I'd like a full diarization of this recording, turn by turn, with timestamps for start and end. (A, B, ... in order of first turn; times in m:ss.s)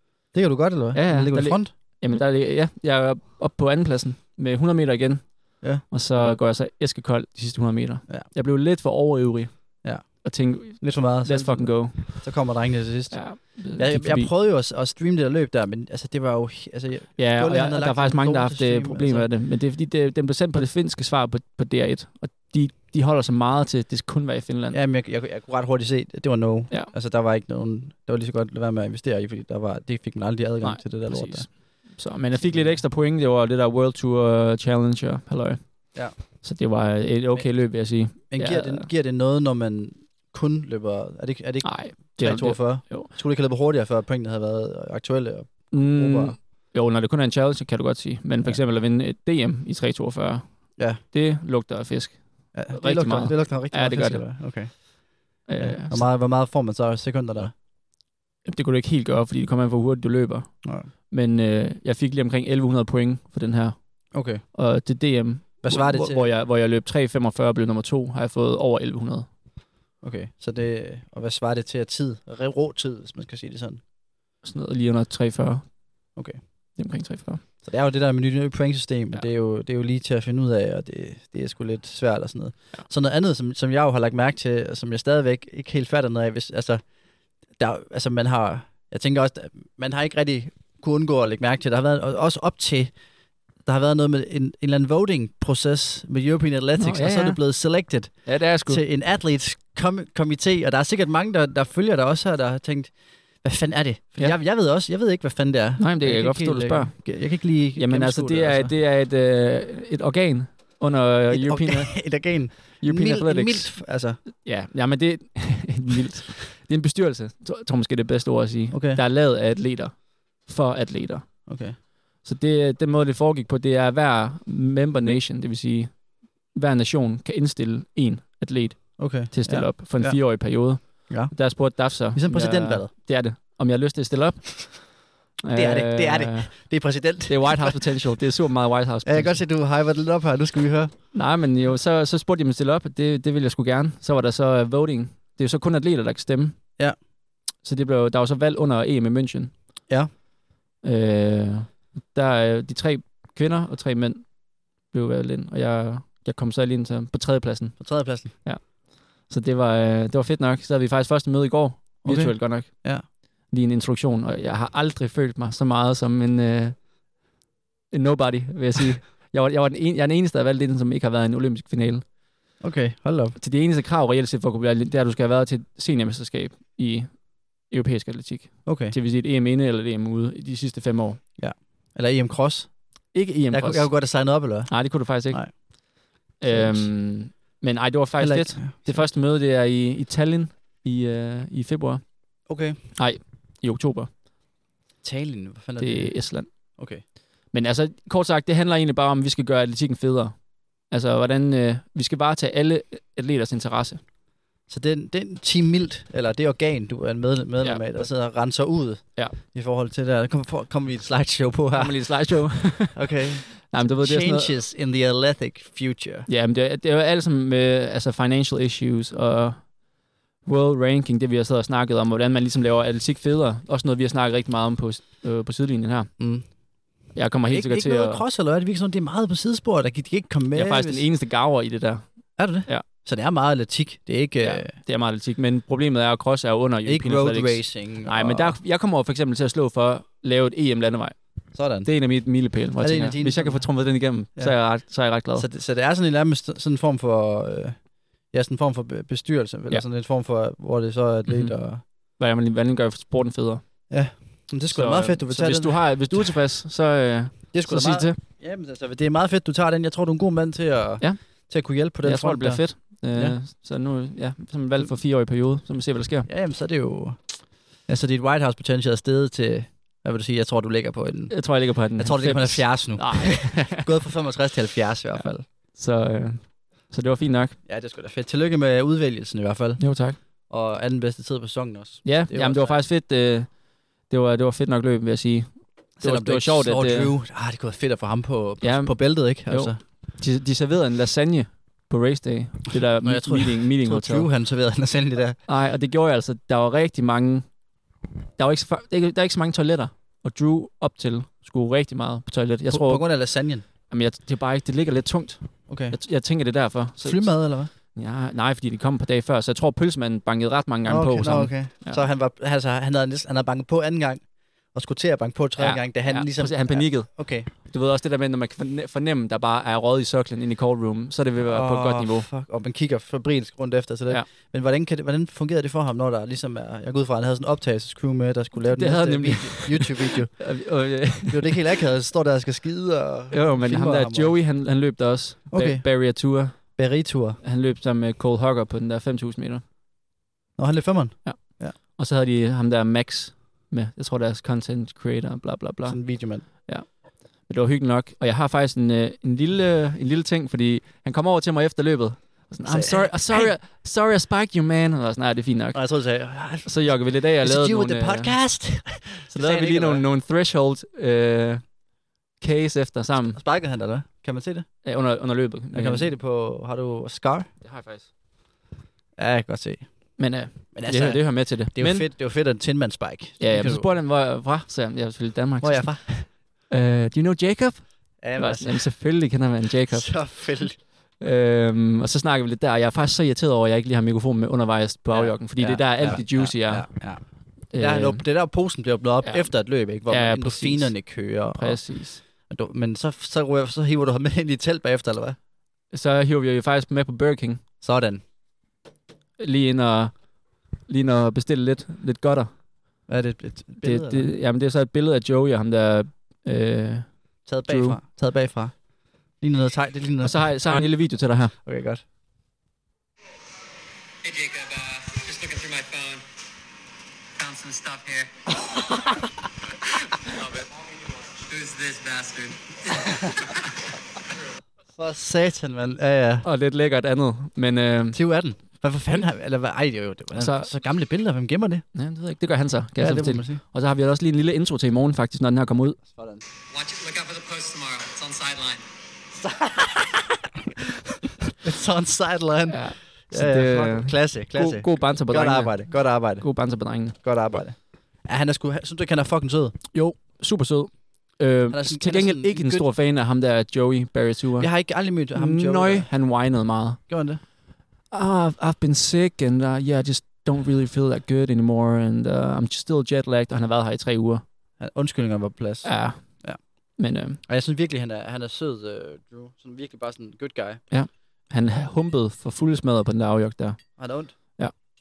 0:00.3-0:01.7 A
0:00.9-0:12.5 B
0:09.8-0:19.3 A
0:13.1-0:14.3 B
0:17.2-0:24.8 B
0:24.7-0:31.5 A
0:30.6-0:38.9 B
0:32.3-0:32.8 A
0:37.3-0:46.4 A
0:41.6-0:43.1 B
0:45.7-0:54.3 B
0:52.5-0:57.5 A
0:55.5-0:56.0 B
0:58.4-1:09.3 B
1:00.6-1:00.9 A
1:04.1-1:04.4 A
1:05.6-1:06.3 A
1:10.0-1:13.8 A
1:14.4-1:15.7 B
1:16.2-1:16.4 A
1:16.8-1:17.4 B
1:17.6-1:26.8 A
1:27.5-1:32.9 A
1:33.6-1:48.7 A
1:36.8-1:37.5 B
1:38.2-1:38.8 B
1:45.8-1:47.2 B
1:47.7-1:53.8 B
1:51.3-1:54.2 A
1:54.4-2:01.5 B
1:58.7-1:59.0 A
2:01.4-2:01.8 A
2:02.2-2:19.4 B
2:09.0-2:12.9 A
2:15.5-2:17.8 A
2:19.0-2:21.0 A
2:21.1-2:26.6 B
2:27.6-2:29.8 B
2:30.8-2:46.9 B
2:37.8-2:38.4 A
2:42.0-2:43.0 A
2:47.9-2:52.1 B
2:52.6-2:53.4 A
2:53.4-3:01.2 B
2:58.6-2:58.9 A
3:01.4-3:02.8 A
3:03.1-3:04.0 B
3:03.5-3:05.5 A
3:04.7-3:12.0 B
3:06.4-3:06.9 A
3:08.2-3:09.1 A
3:12.5-3:12.8 A
3:13.0-3:14.1 B
3:15.0-3:16.2 A
3:15.8-3:16.5 B
3:16.8-3:17.0 A
3:17.5-3:24.0 B
3:24.7-3:36.3 A
3:27.6-3:28.2 B
3:31.7-3:34.6 B
3:36.3-3:39.8 B
3:40.4-3:46.1 B
3:46.2-3:46.6 A
3:47.1-3:48.2 B
3:47.5-3:51.1 A
3:50.5-3:52.8 B
3:52.4-3:54.7 A
3:54.4-4:05.5 B
3:56.8-3:58.6 A
4:01.5-4:01.9 A
4:02.8-4:11.8 A
4:11.3-4:13.9 B
4:13.9-4:16.4 A
4:14.7-4:18.2 B
4:17.5-4:23.4 A
4:21.0-4:21.5 B
4:22.0-4:26.3 B
4:26.2-4:35.4 A
4:31.3-4:33.8 B
4:35.2-4:37.6 B
4:37.6-4:42.8 A
4:39.8-4:40.2 B
4:42.0-4:47.1 B
4:46.0-4:49.8 A
4:48.6-4:54.3 B
4:53.0-4:55.4 A
4:55.4-4:57.6 B
4:58.4-5:12.0 B
5:02.7-5:03.6 A
5:05.7-5:06.0 A
5:07.0-5:07.7 A
5:10.8-5:17.5 A
5:15.6-5:22.3 B
5:21.5-5:34.4 A
5:28.6-5:31.6 B
5:33.3-5:36.8 B
5:35.5-5:37.4 A
5:37.4-5:39.6 B
5:40.6-5:41.8 A
5:41.2-5:56.0 B
5:45.8-5:46.5 A
5:52.6-5:53.6 A
5:55.7-6:00.0 A
5:56.6-5:58.4 B
5:59.3-6:01.8 B
6:02.4-6:03.4 B
6:03.2-6:04.9 A
6:04.8-6:06.1 B
6:05.7-6:07.5 A
6:07.6-6:08.1 B
6:09.2-6:10.2 A
6:10.2-6:12.1 B
6:10.7-6:14.0 A
6:13.4-6:20.4 B
6:15.6-6:16.3 A
6:18.2-6:18.9 A
6:19.9-6:20.8 A
6:21.2-6:27.1 B
6:25.1-6:35.4 A
6:27.7-6:28.3 B
6:29.2-6:32.2 B
6:35.9-6:37.6 B
6:37.8-6:38.2 A
6:39.4-6:42.5 B
6:43.1-6:44.3 A
6:43.8-6:48.0 B
6:47.4-6:50.8 A
6:50.2-6:51.6 B
6:51.5-6:52.0 A
6:54.2-6:56.2 C
6:57.4-6:58.4 C
7:00.2-7:03.4 C
7:04.9-7:06.4 A
7:06.4-7:08.2 B
7:08.1-7:11.8 A
7:10.4-7:10.7 B
7:11.9-7:16.0 B
7:13.0-7:13.6 A
7:16.1-7:16.4 A
7:16.7-7:18.8 C
7:21.6-7:29.8 A
7:22.7-7:27.1 B
7:29.9-7:37.0 B
7:31.7-7:32.8 A
7:34.6-7:36.2 A
7:37.1-7:37.4 A
7:38.1-7:44.4 B
7:44.8-7:46.6 A
7:45.8-7:46.4 B
7:47.0-7:47.4 B
7:47.4-7:50.8 A
7:50.9-7:54.0 B
7:54.0-7:54.3 A